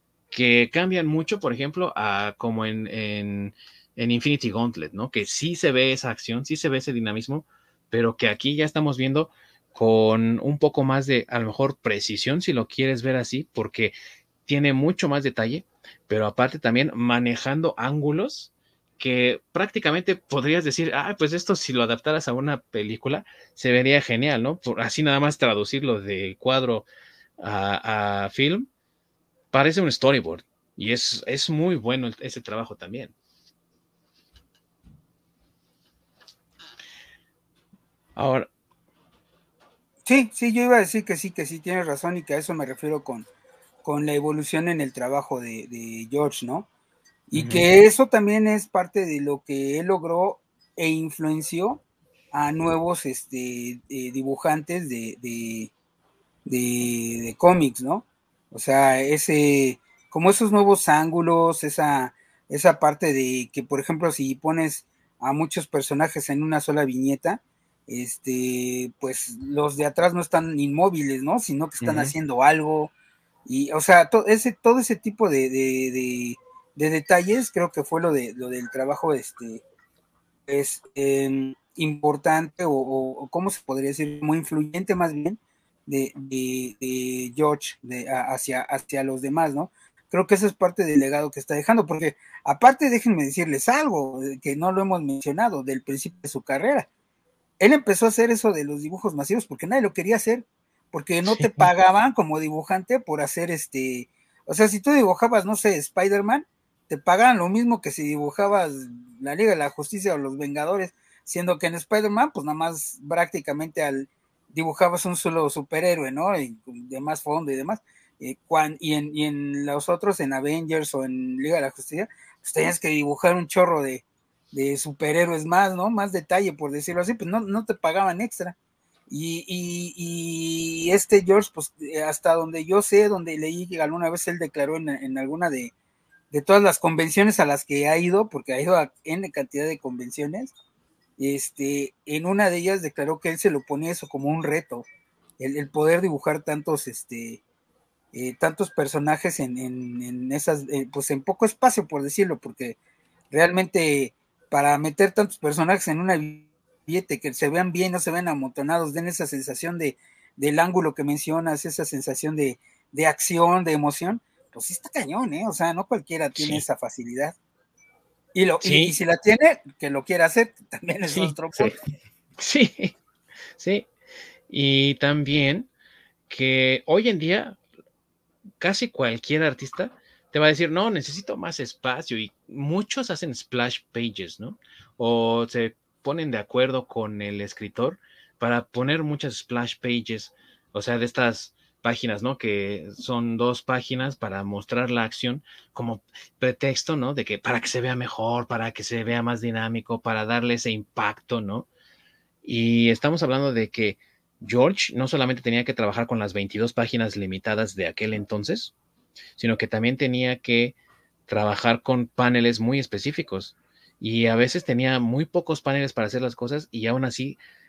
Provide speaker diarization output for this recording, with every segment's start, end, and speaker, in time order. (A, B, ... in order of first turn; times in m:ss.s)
0:00.3-0:13.9 A
0:14.4-0:26.8 A
0:27.4-0:28.7 A
0:29.5-0:33.1 A
0:38.2-0:38.5 A
0:40.0-0:43.3 B
0:43.8-0:46.7 B
0:47.3-0:51.8 B
0:47.3-0:47.6 A
0:52.3-0:55.7 B
0:56.4-1:12.9 B
1:11.8-1:12.1 A
1:13.4-1:19.6 B
1:20.5-1:36.9 B
1:37.6-2:08.6 B
1:41.3-1:41.7 A
2:09.1-2:15.7 B
2:16.3-2:20.5 B
2:21.2-2:24.8 B
2:25.4-2:27.4 B
2:28.1-2:32.8 B
2:33.3-2:47.3 B
2:46.4-2:46.6 A
2:48.3-2:51.7 B
2:48.6-2:48.9 A
2:51.1-2:51.4 A
2:52.4-2:53.0 A
2:53.6-2:53.9 A
2:54.5-2:55.7 A
2:56.3-2:57.6 A
2:58.6-3:21.7 A
3:22.4-3:28.7 A
3:29.4-3:30.7 A
3:31.3-3:37.4 A